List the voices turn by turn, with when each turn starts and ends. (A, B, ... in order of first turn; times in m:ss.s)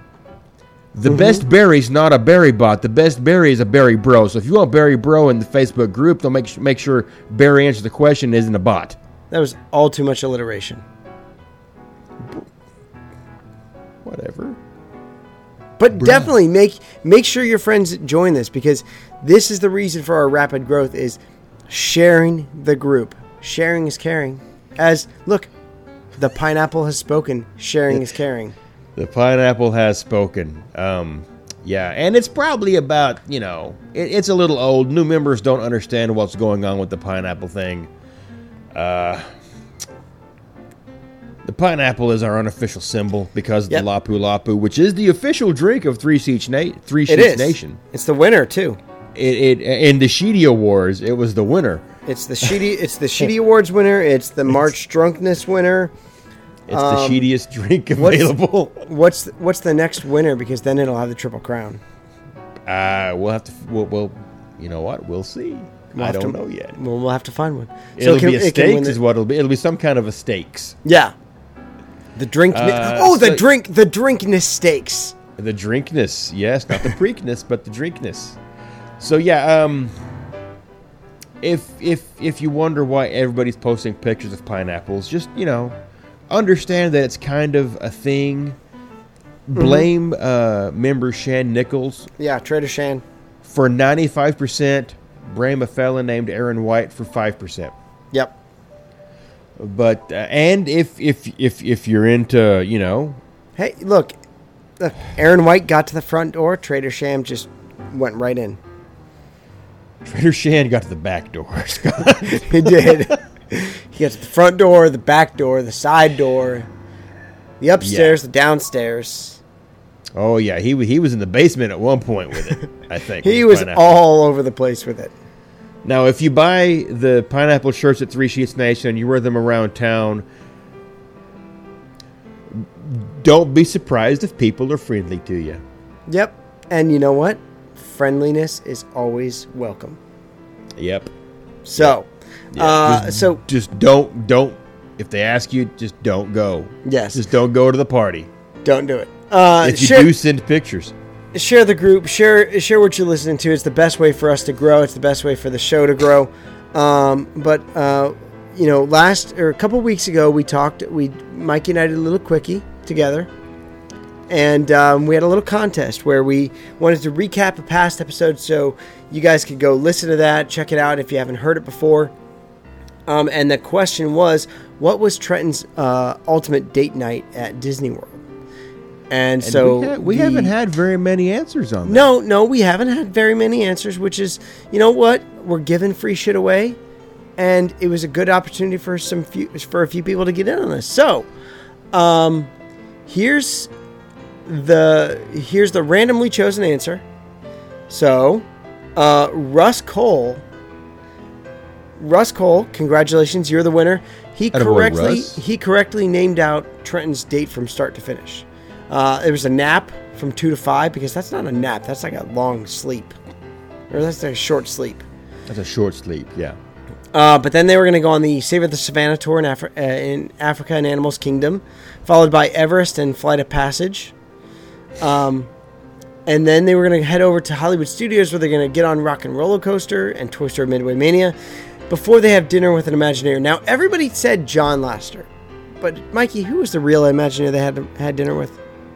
0:00.9-0:09.0 A
0:01.1-0:01.4 B
0:09.3-0:10.8 B
0:14.0-0:14.6 A
0:15.8-0:25.5 B
0:16.0-0:16.3 A
0:26.2-0:28.6 B
0:29.0-0:37.9 A
0:38.7-0:39.3 A
0:41.4-0:47.8 A
0:47.1-0:48.8 B
0:49.2-0:51.9 A
0:52.1-0:55.9 B
0:56.7-0:58.9 A
0:56.7-0:57.3 B
0:58.9-1:01.8 B
1:02.7-1:06.8 A
1:05.9-1:09.0 B
1:08.0-1:10.8 A
1:10.8-1:11.1 B
1:12.2-1:15.2 B
1:12.5-1:13.5 A
1:15.4-1:18.4 A
1:19.0-1:20.0 A
1:21.4-1:25.8 A
1:26.3-1:28.6 A
1:29.5-1:32.1 A
1:29.6-1:29.9 B
1:32.2-1:33.0 B
1:33.4-1:37.8 A
1:39.6-1:43.2 A
1:43.6-1:44.2 B
1:44.8-1:48.6 B
1:50.0-1:53.2 A
1:52.2-1:56.7 B
1:57.6-1:59.4 B
1:57.8-1:58.2 A
2:00.2-2:03.9 A
2:03.2-2:05.1 B
2:05.8-2:10.2 A
2:12.5-2:15.6 A
2:16.1-2:20.0 B
2:20.8-2:21.1 A
2:21.6-2:23.4 B
2:22.5-2:28.3 A
2:26.8-2:27.2 B
2:28.6-2:30.1 B
2:29.6-2:31.0 A
2:31.3-2:43.3 B
2:44.3-2:52.1 B
2:53.1-2:58.2 B
2:59.1-3:00.5 B
2:59.4-3:02.1 A
3:01.8-3:06.8 B
3:07.4-3:11.3 B
3:11.9-3:12.5 B
3:13.1-3:13.7 B
3:14.5-3:17.0 B
3:17.9-3:20.4 B
3:22.0-3:33.2 B
3:24.5-3:25.4 A
3:33.9-3:35.0 B
3:35.5-3:36.6 A
3:37.1-3:44.2 B
3:45.0-3:45.5 B
3:46.3-3:51.4 B
3:51.9-3:55.3 B
3:55.8-3:58.6 B